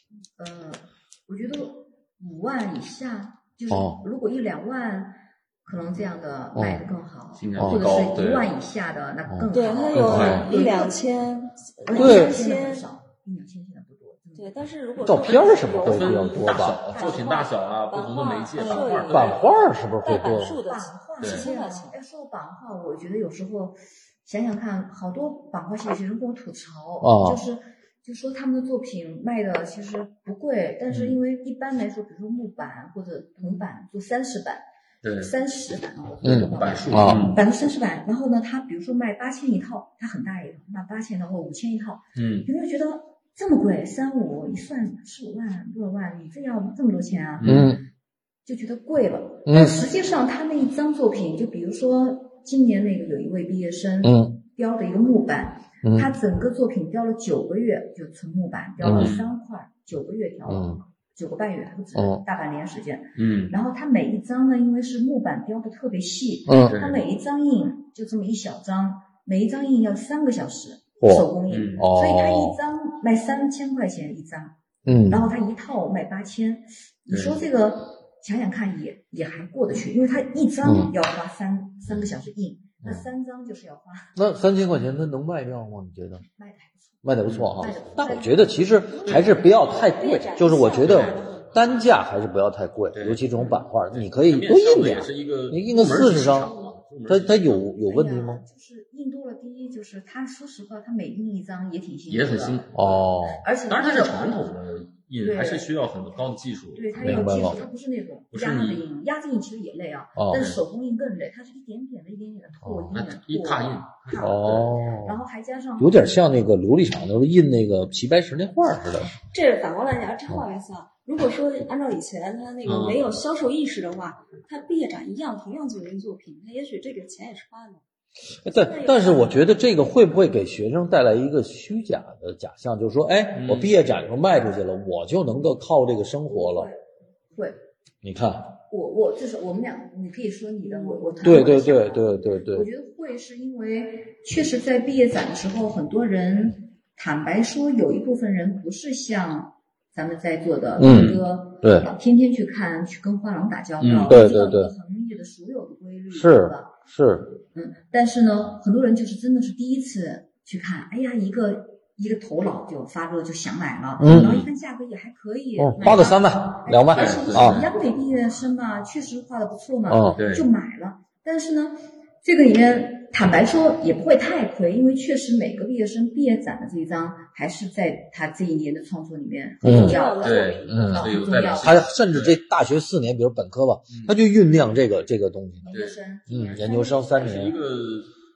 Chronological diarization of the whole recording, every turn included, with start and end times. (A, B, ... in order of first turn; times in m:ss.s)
0:00.4-0:11.0 A
0:03.7-0:04.0 B
0:06.6-0:06.9 B
0:07.4-0:08.5 C
0:07.6-0:08.0 B
0:09.3-0:10.5 B
0:09.5-0:12.9 D
0:09.9-0:10.5 C
0:11.8-0:14.6 A
0:12.0-0:12.4 B
0:14.4-0:22.0 D
0:15.0-0:16.8 B
0:15.1-0:19.4 C
0:19.1-0:20.6 B
0:20.6-0:34.6 A
0:21.2-0:21.5 C
0:27.0-0:27.4 B
0:30.9-0:31.2 C
0:35.0-0:35.3 C
0:35.2-0:47.7 A
0:36.2-0:37.4 B
0:36.2-0:37.4 C
0:42.2-0:42.5 C
0:47.4-0:47.8 C
0:47.4-0:47.8 B
0:48.4-1:14.6 A
0:49.5-0:49.9 B
0:54.0-0:54.4 B
0:55.8-0:56.1 B
0:58.8-0:59.2 B
0:58.9-0:59.3 C
1:00.5-1:00.8 B
1:02.0-1:02.2 B
1:03.2-1:03.6 C
1:06.5-1:06.8 B
1:06.6-1:07.0 C
1:11.0-1:12.6 B
1:11.5-1:11.8 C
1:14.8-1:15.3 B
1:15.1-1:24.2 A
1:17.1-1:17.4 C
1:20.6-1:20.9 B
1:21.9-1:22.1 C
1:24.2-1:26.2 B
1:26.2-1:29.5 A
1:27.0-1:36.6 B
1:27.2-1:27.8 C
1:28.9-1:31.7 D
1:29.1-1:29.3 C
1:30.7-1:31.3 C
1:32.9-1:37.5 C
1:37.1-1:38.4 B
1:37.5-1:42.6 A
1:42.1-1:47.6 C
1:42.7-1:43.4 B
1:43.4-1:44.4 A
1:45.2-1:45.7 A
1:46.8-1:56.0 A
1:47.0-1:47.6 B
1:48.3-1:48.8 C
1:50.2-1:50.5 B
1:50.3-1:50.6 C
1:52.6-1:53.0 B
1:52.9-1:54.8 C
1:54.2-1:55.2 B
1:55.8-1:59.2 B
1:59.2-2:07.8 D
2:02.6-2:03.2 C
2:08.4-2:16.7 B
2:08.5-2:09.5 D
2:13.3-2:13.7 C
2:16.3-2:16.8 D
2:17.3-2:17.6 A
2:18.0-2:18.6 B
2:18.7-2:36.7 A
2:20.7-2:21.3 D
2:21.2-2:22.7 B
2:30.8-2:31.9 B
2:30.8-2:31.2 C
2:33.8-2:34.2 C
2:34.1-2:34.7 B
2:36.1-2:37.3 B
2:37.5-3:01.9 A
2:44.0-2:44.4 B
2:44.1-2:44.5 C
2:45.6-2:47.7 B
2:46.9-2:47.7 C
2:49.9-2:50.2 B
2:50.2-2:50.5 C
2:59.6-3:00.0 B
2:59.6-3:01.2 D
3:00.2-3:02.4 C
3:00.7-3:07.6 B
3:03.9-3:04.2 C
3:05.6-3:07.6 A
3:05.7-3:08.1 C